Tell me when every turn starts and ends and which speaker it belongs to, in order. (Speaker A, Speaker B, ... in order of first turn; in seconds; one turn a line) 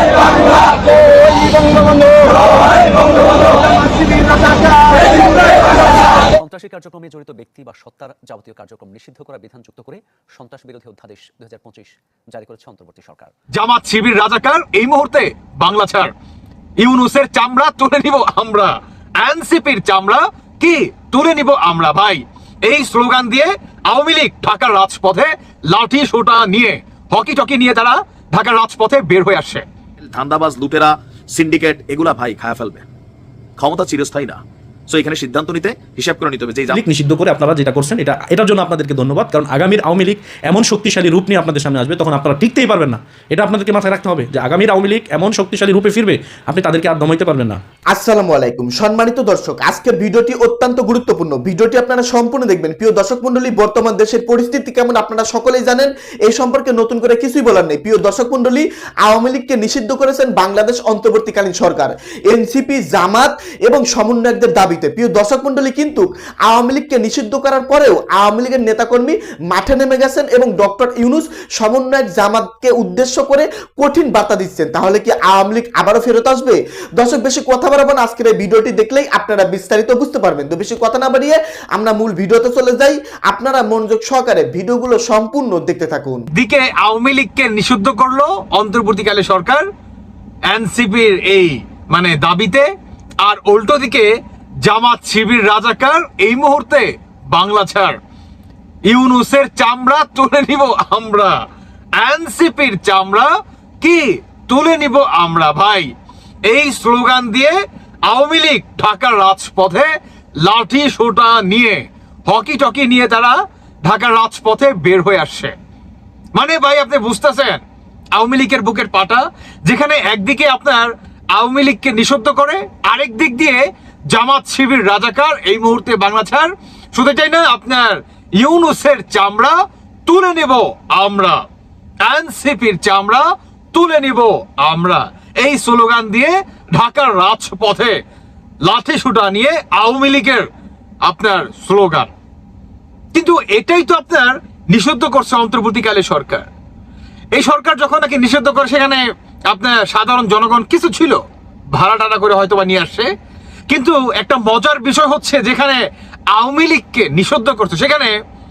Speaker A: 1.0-1.8
Speaker B: 3.0-13.3
Speaker C: 13.5-16.1
Speaker C: 16.8-29.6
Speaker D: 30.0-32.9
Speaker D: 33.6-36.8
Speaker E: 36.7-47.6
Speaker A: 47.9-86.2
Speaker C: 86.3-89.7
Speaker C: 90.5-92.7
Speaker C: 93.2-94.1
Speaker C: 94.6-98.0
Speaker C: 98.9-101.4
Speaker C: 102.0-105.9
Speaker C: 106.5-109.9
Speaker C: 110.4-115.5
Speaker C: 116.3-117.6
Speaker C: 118.2-131.4
Speaker C: 132.0-138.0
Speaker C: 138.6-140.5
Speaker C: 141.1-142.1
Speaker C: 143.1-146.5
Speaker C: 147.3-151.2
Speaker C: 151.7-153.1
Speaker C: 153.7-155.8
Speaker C: 156.3-158.1